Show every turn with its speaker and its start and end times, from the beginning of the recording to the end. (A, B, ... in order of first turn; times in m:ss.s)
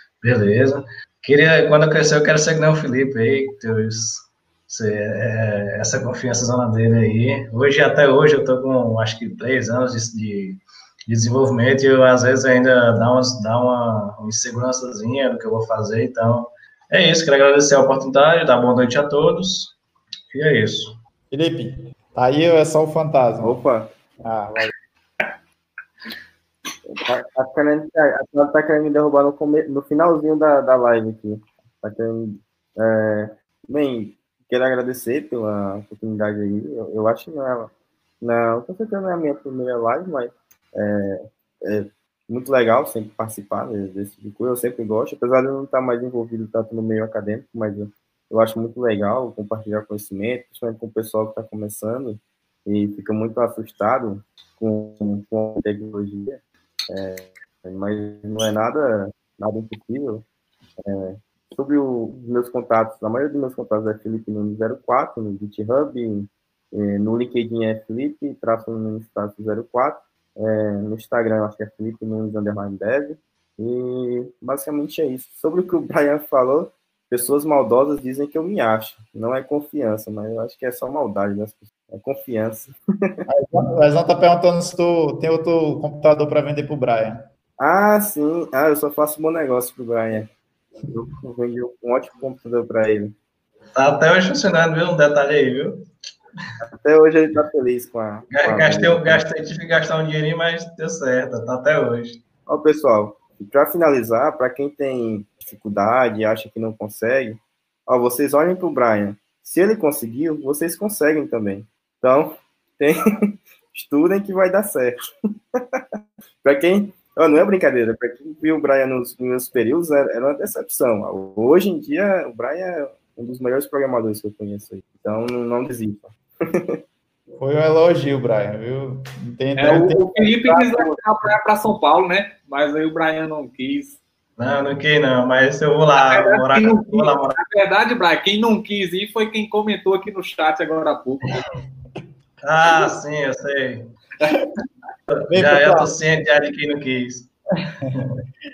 0:00.2-0:19.7 A
0:20.3-0:21.0 A
0:21.3-0:23.6 B
0:23.4-0:23.9 C
0:24.2-0:24.7 B
0:26.8-1:00.2 C
1:00.8-1:23.2 C
1:23.3-1:27.2 B
1:27.6-1:30.3 C
1:30.9-1:33.1 C
1:33.7-1:35.8 A
1:36.6-1:39.2 C
1:38.3-1:42.2 A
1:42.5-1:55.0 C
1:55.5-1:55.8 C
1:56.4-2:06.8 C
2:07.4-2:10.9 B
2:09.6-2:14.0 D
2:14.4-2:17.4 A
2:15.9-2:21.4 D
2:22.4-2:23.9 A
2:25.3-2:25.9 B
2:25.3-2:27.3 A